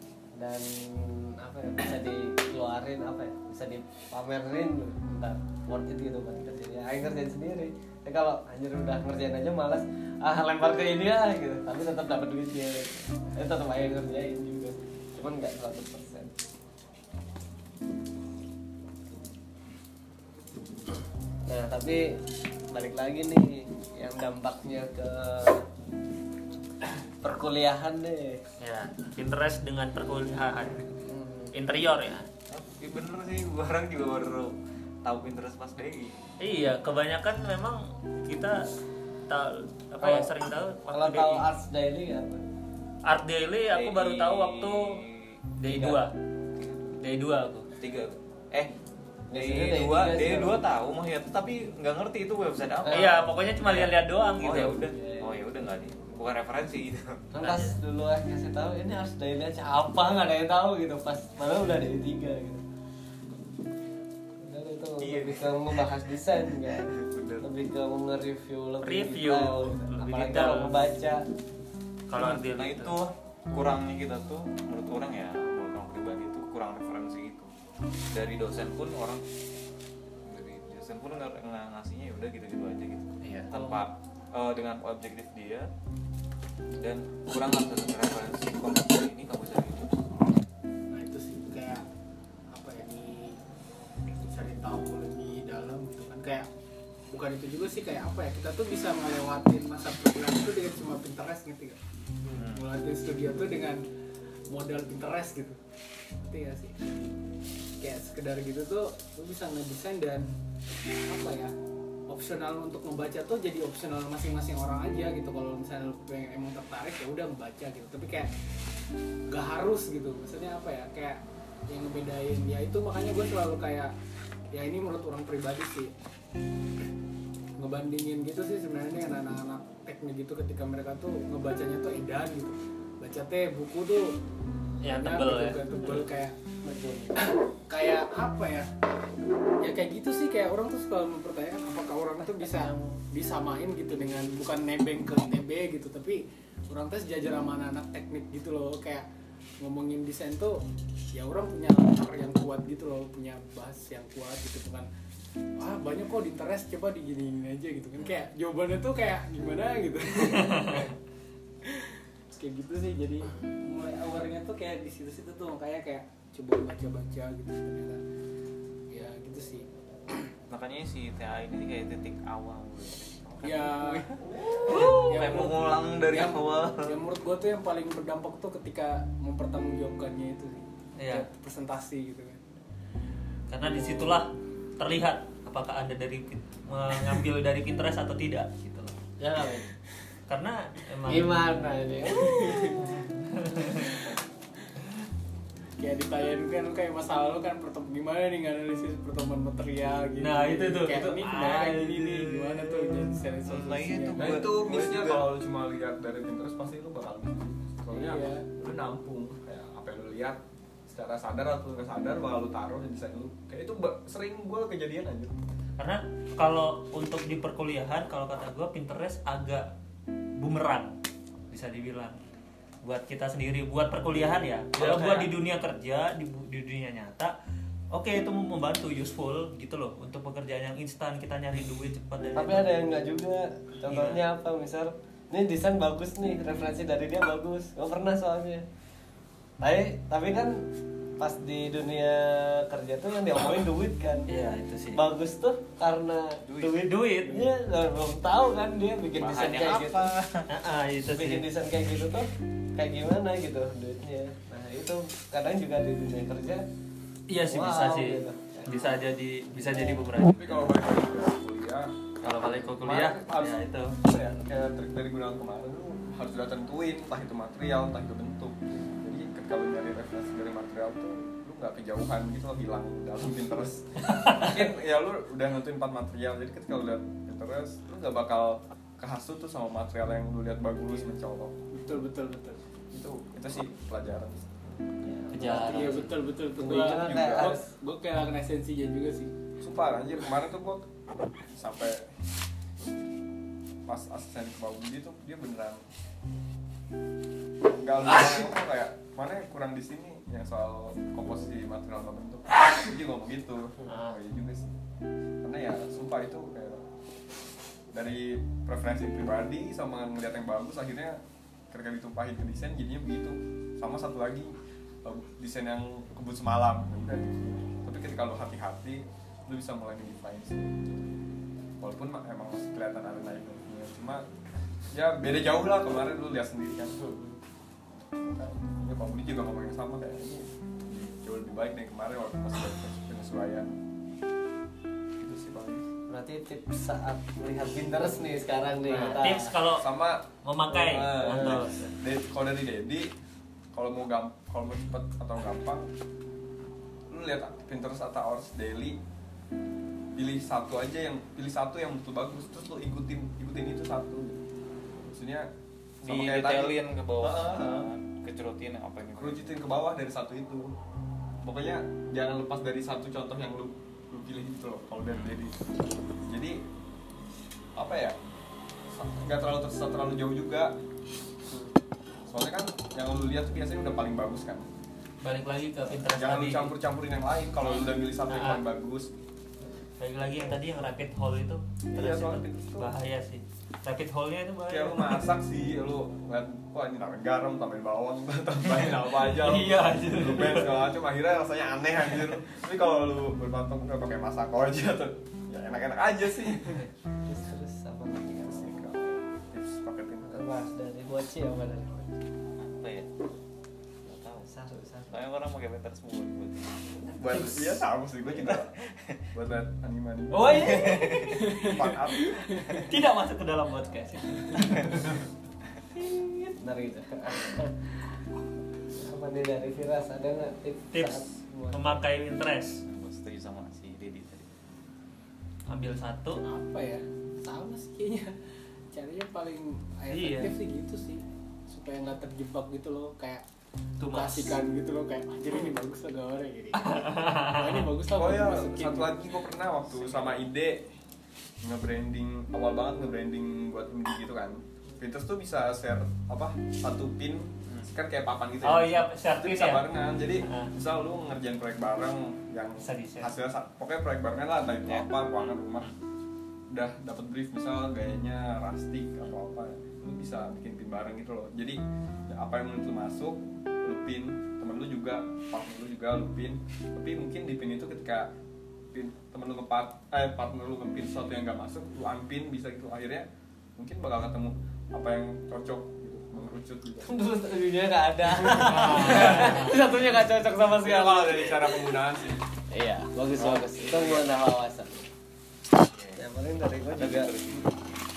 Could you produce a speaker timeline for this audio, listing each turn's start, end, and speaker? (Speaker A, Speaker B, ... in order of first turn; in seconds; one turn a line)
Speaker A: 0.3-16.3
Speaker A: 21.5-25.7
Speaker A: 27.2-28.4
Speaker B: 28.6-30.9
Speaker A: 31.0-31.5
Speaker B: 31.5-32.3
Speaker C: 32.5-36.3
Speaker B: 36.4-38.7
Speaker B: 39.3-41.5
Speaker A: 40.0-40.3
Speaker A: 40.9-42.4
Speaker B: 43.1-45.0
Speaker C: 43.7-46.0
Speaker B: 45.6-46.1
Speaker C: 46.5-47.0
Speaker B: 47.0-47.7
Speaker C: 47.8-48.7
Speaker A: 49.3-50.6
Speaker C: 49.3-57.2
Speaker A: 52.9-53.2
Speaker B: 52.9-54.9
Speaker A: 54.9-55.4
Speaker A: 57.3-62.6
Speaker B: 57.4-57.8
Speaker A: 64.4-71.2
Speaker C: 65.0-65.9
Speaker C: 66.9-67.5
Speaker B: 68.8-70.8
Speaker B: 72.1-72.9
Speaker C: 72.2-77.5
Speaker C: 78.1-79.2
Speaker C: 80.3-85.7
Speaker B: 83.2-83.5
Speaker D: 83.5-83.8
Speaker C: 86.8-90.1
Speaker D: 90.9-91.8
Speaker D: 92.5-93.4
Speaker D: 94.1-96.5
Speaker D: 97.1-101.8
Speaker C: 102.3-102.7
Speaker D: 102.4-103.8
Speaker D: 104.5-105.6
Speaker D: 106.2-107.1
Speaker D: 107.8-110.3
Speaker D: 111.1-111.5
Speaker D: 112.1-118.3
Speaker D: 119.3-123.9
Speaker D: 124.5-125.9
Speaker D: 127.6-134.1
Speaker B: 134.8-135.6
Speaker D: 134.9-136.3
Speaker A: 136.6-137.2
Speaker D: 137.2-138.7
Speaker D: 139.6-149.1
Speaker D: 149.6-154.9
Speaker D: 155.6-160.9
Speaker B: 160.4-160.9
Speaker D: 161.6-168.0
Speaker D: 168.9-170.3
Speaker C: 170.5-173.7
Speaker D: 173.4-182.4
Speaker B: 173.4-174.0
Speaker C: 174.6-176.9
Speaker B: 181.0-181.3
Speaker B: 183.5-189.6
Speaker A: 189.2-189.7
Speaker B: 190.3-191.6
Speaker A: 191.1-193.1
Speaker D: 192.1-192.9
Speaker B: 193.2-194.0
Speaker D: 195.8-204.3
Speaker B: 200.2-202.6
Speaker C: 203.4-205.3
Speaker E: 204.2-215.3
Speaker D: 207.9-208.5
Speaker B: 215.8-219.7
Speaker B: 220.4-221.0
Speaker B: 221.5-222.2
Speaker B: 222.8-227.3
Speaker A: 224.7-225.3
Speaker B: 227.9-232.8
Speaker A: 232.4-238.7
Speaker B: 233.9-234.2
Speaker A: 239.6-240.6
Speaker A: 241.2-244.3
Speaker B: 244.3-245.1
Speaker A: 244.9-250.1
Speaker C: 246.5-246.8
Speaker B: 246.6-247.5
Speaker C: 249.2-250.5
Speaker B: 250.5-251.5
Speaker A: 251.1-256.6
Speaker B: 257.3-260.7
Speaker A: 257.5-259.0
Speaker A: 259.5-260.0
Speaker E: 260.3-261.9
Speaker B: 262.2-264.0
Speaker E: 262.8-281.6
Speaker D: 281.7-282.6
Speaker E: 282.9-284.6
Speaker A: 284.8-287.7
Speaker B: 285.3-286.1
Speaker D: 285.6-289.3
Speaker E: 286.6-287.5
Speaker E: 289.6-290.9
Speaker E: 291.5-292.1
Speaker E: 293.9-295.8
Speaker E: 297.8-304.8
Speaker B: 303.9-304.2
Speaker E: 305.4-306.8
Speaker E: 307.9-321.1
Speaker E: 321.8-324.2
Speaker E: 324.9-327.2
Speaker A: 327.0-327.4
Speaker E: 328.2-333.8
Speaker E: 335.2-335.9
Speaker A: 336.1-339.5
Speaker B: 338.9-339.9
Speaker E: 339.1-340.2
Speaker B: 340.4-341.8
Speaker A: 340.7-341.9
Speaker E: 340.8-343.1
Speaker E: 343.7-345.9
Speaker E: 347.1-349.0
Speaker E: 350.2-354.4
Speaker E: 355.1-355.5
Speaker E: 356.0-357.9
Speaker C: 356.0-359.5
Speaker E: 359.2-360.7
Speaker E: 361.4-365.6
Speaker C: 365.1-365.4
Speaker E: 366.2-366.6
Speaker E: 367.8-368.2
Speaker E: 368.9-370.7
Speaker E: 372.3-374.7
Speaker B: 375.2-376.7
Speaker E: 375.9-379.1
Speaker B: 378.3-378.6
Speaker B: 380.0-385.3
Speaker E: 381.9-382.9
Speaker E: 384.7-396.9
Speaker B: 389.2-390.9
Speaker A: 397.2-398.8
Speaker E: 398.2-400.5
Speaker A: 400.3-402.0
Speaker C: 402.6-403.1
Speaker C: 404.1-404.5
Speaker A: 404.5-405.2
Speaker C: 405.1-407.1
Speaker E: 407.1-408.8
Speaker C: 408.3-409.3
Speaker E: 409.3-412.9
Speaker A: 410.3-411.3
Speaker C: 410.6-411.4
Speaker D: 411.2-412.9
Speaker B: 412.9-415.2
Speaker A: 416.6-418.2
Speaker A: 418.9-422.0
Speaker B: 420.9-422.8
Speaker C: 422.9-424.5
Speaker B: 425.7-426.4
Speaker D: 426.4-428.3
Speaker D: 428.9-433.4
Speaker B: 430.1-430.5
Speaker B: 434.0-434.6
Speaker D: 434.1-439.2
Speaker B: 436.8-437.9
Speaker E: 438.2-440.9
Speaker E: 441.6-455.9
Speaker B: 448.6-449.9
Speaker B: 450.4-450.7
Speaker B: 452.8-453.3
Speaker C: 454.9-456.0
Speaker E: 456.7-468.3
Speaker E: 468.9-473.3
Speaker E: 473.8-477.1
Speaker A: 477.0-482.1
Speaker E: 478.5-479.8
Speaker B: 478.8-479.7
Speaker E: 480.8-482.4
Speaker A: 482.7-485.0
Speaker E: 483.4-484.2
Speaker C: 485.9-486.2
Speaker A: 486.2-487.3
Speaker C: 486.9-487.8